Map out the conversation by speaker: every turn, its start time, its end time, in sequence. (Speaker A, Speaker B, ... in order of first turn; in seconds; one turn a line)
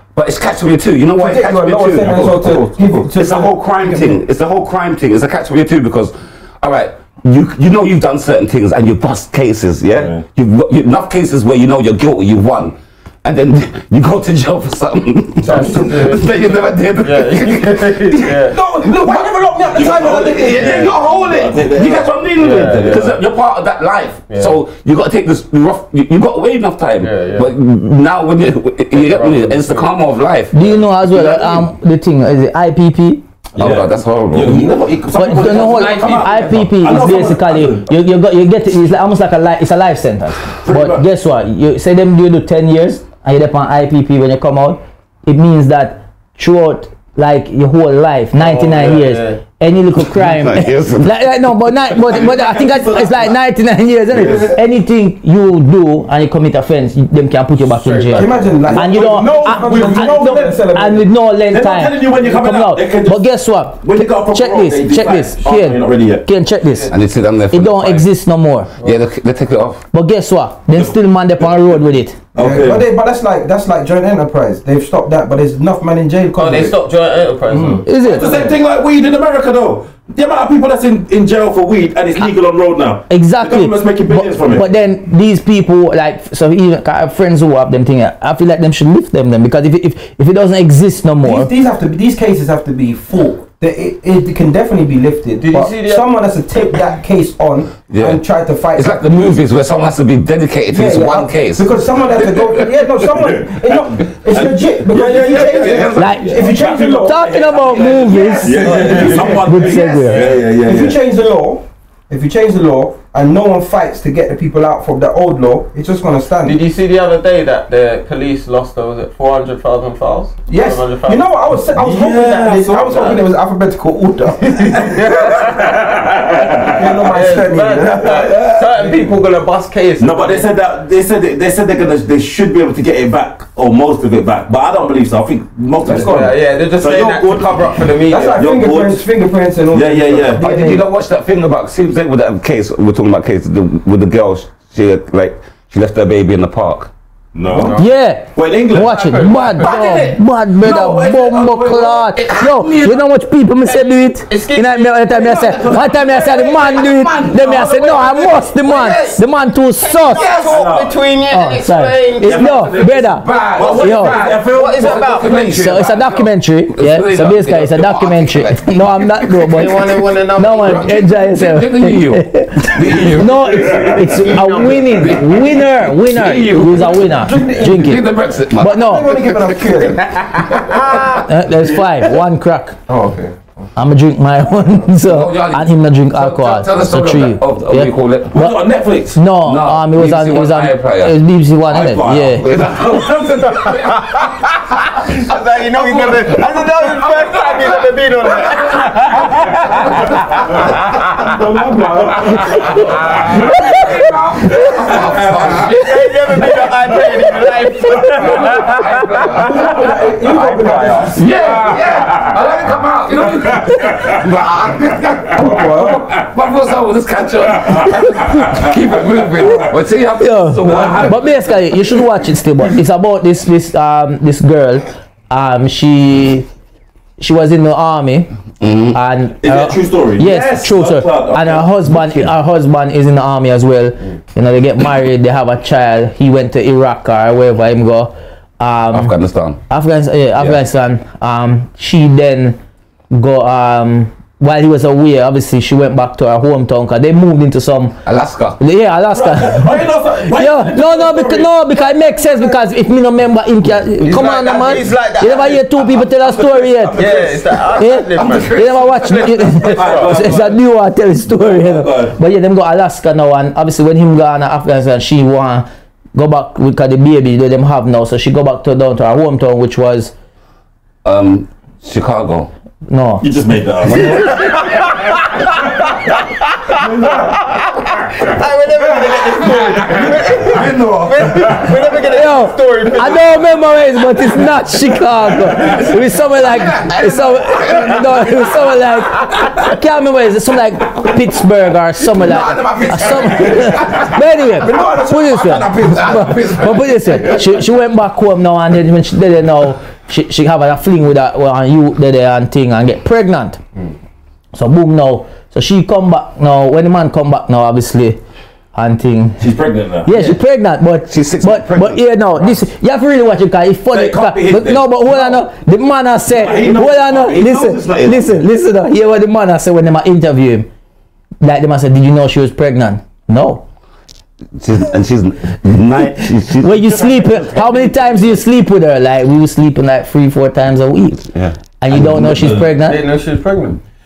Speaker A: 0.1-2.6
Speaker B: 1.2-4.2
Speaker C: 2.0-3.0
Speaker A: 3.1-31.6
Speaker C: 9.9-10.2
Speaker B: 15.4-16.2
Speaker D: 15.4-16.3
Speaker D: 16.9-18.6
Speaker B: 18.5-20.9
Speaker C: 19.7-23.2
Speaker D: 20.6-21.0
Speaker D: 22.4-23.2
Speaker D: 24.3-24.6
Speaker D: 27.0-27.5
Speaker D: 28.9-29.9
Speaker E: 30.5-33.2
Speaker C: 33.5-37.9
Speaker A: 33.6-36.7
Speaker E: 35.1-66.9
Speaker C: 40.6-41.0
Speaker D: 48.4-49.4
Speaker A: 50.0-51.1
Speaker C: 52.1-53.4
Speaker C: 54.1-54.5
Speaker A: 54.2-54.5
Speaker D: 57.6-58.7
Speaker B: 58.1-61.1
Speaker C: 58.7-60.5
Speaker C: 61.5-63.3
Speaker C: 63.8-66.3
Speaker D: 66.6-66.9
Speaker A: 66.9-68.1
Speaker E: 67.5-68.7
Speaker A: 68.8-69.8
Speaker E: 69.9-72.2
Speaker C: 72.3-72.8
Speaker B: 72.4-76.8
Speaker D: 76.3-78.5
Speaker B: 77.5-77.8
Speaker E: 77.8-78.4
Speaker C: 78.0-84.7
Speaker E: 83.1-91.5
Speaker B: 91.2-99.0
Speaker D: 95.4-96.1
Speaker A: 97.9-98.2
Speaker A: 98.8-102.7
Speaker B: 100.7-107.3
Speaker C: 103.2-111.0
Speaker A: 105.0-106.5
Speaker E: 106.0-110.2
Speaker A: 107.8-110.1
Speaker B: 108.0-109.7
Speaker D: 108.7-109.2
Speaker D: 110.1-110.4
Speaker B: 110.5-116.6
Speaker D: 116.4-121.3
Speaker B: 120.5-125.1
Speaker C: 121.7-123.2
Speaker D: 124.4-126.0
Speaker C: 125.3-127.0
Speaker B: 126.6-128.5
Speaker D: 126.6-130.5
Speaker C: 128.1-128.4
Speaker C: 130.0-137.6
Speaker B: 135.8-136.3
Speaker D: 135.9-138.5
Speaker B: 138.1-140.8
Speaker C: 138.4-139.1
Speaker C: 139.7-140.4
Speaker A: 140.4-146.9
Speaker C: 147.3-147.8
Speaker D: 147.5-147.9
Speaker E: 147.8-160.3
Speaker C: 148.3-149.2
Speaker D: 148.8-149.7
Speaker A: 149.3-151.0
Speaker C: 150.6-152.1
Speaker A: 151.9-153.0
Speaker D: 153.7-155.7
Speaker A: 155.2-159.2
Speaker D: 159.8-162.7
Speaker A: 160.1-160.7
Speaker C: 160.5-161.0
Speaker E: 161.3-164.2
Speaker C: 162.2-165.2
Speaker A: 162.7-179.4
Speaker D: 164.4-165.7
Speaker E: 165.4-178.1
Speaker D: 169.5-171.0
Speaker C: 173.6-174.1
Speaker D: 174.2-175.2
Speaker B: 177.2-178.0
Speaker E: 178.6-179.2
Speaker B: 178.6-180.4
Speaker D: 180.1-181.2
Speaker A: 180.7-181.1
Speaker E: 181.1-182.8
Speaker B: 182.9-183.6
Speaker E: 183.8-188.6
Speaker A: 185.0-188.4
Speaker C: 188.3-189.2
Speaker E: 189.1-192.5
Speaker A: 189.3-191.2
Speaker C: 191.7-192.6
Speaker A: 192.4-194.3
Speaker D: 193.5-201.3
Speaker A: 195.2-200.4
Speaker C: 201.2-203.5
Speaker B: 202.1-202.5
Speaker A: 202.5-206.4
Speaker D: 203.0-203.9
Speaker C: 204.8-205.7
Speaker D: 205.5-211.2
Speaker A: 208.1-209.9
Speaker B: 209.4-211.2
Speaker A: 211.1-221.3
Speaker C: 211.3-214.2
Speaker B: 215.3-216.1
Speaker C: 217.6-218.7
Speaker E: 220.2-226.5
Speaker C: 220.6-221.4
Speaker B: 220.7-221.0
Speaker E: 227.2-228.3
Speaker A: 228.6-229.0
Speaker E: 228.9-239.1
Speaker C: 229.4-232.1
Speaker A: 238.9-239.6
Speaker E: 239.7-242.6
Speaker E: 243.1-248.0
Speaker A: 248.1-248.6
Speaker E: 248.6-257.1
Speaker C: 249.1-251.6
Speaker D: 254.0-256.1
Speaker C: 256.3-257.4
Speaker D: 256.9-258.6
Speaker E: 257.8-270.1
Speaker A: 258.1-259.8
Speaker C: 259.7-260.6
Speaker D: 259.8-260.2
Speaker C: 261.3-262.2
Speaker A: 271.0-272.5
Speaker E: 272.9-273.2
Speaker C: 273.2-274.5
Speaker A: 273.9-274.9
Speaker D: 274.6-283.7
Speaker A: 279.9-281.7
Speaker E: 282.0-303.6
Speaker A: 285.5-288.8
Speaker A: 292.0-297.5
Speaker E: 304.5-308.2
Speaker E: 308.8-309.5
Speaker C: 309.4-310.4
Speaker E: 310.0-320.7
Speaker A: 311.1-312.0
Speaker C: 313.9-315.4
Speaker C: 316.3-317.5
Speaker A: 316.6-318.4
Speaker E: 321.4-323.6
Speaker A: 324.6-328.2
Speaker E: 326.6-333.0
Speaker C: 331.9-332.7
Speaker D: 332.8-333.8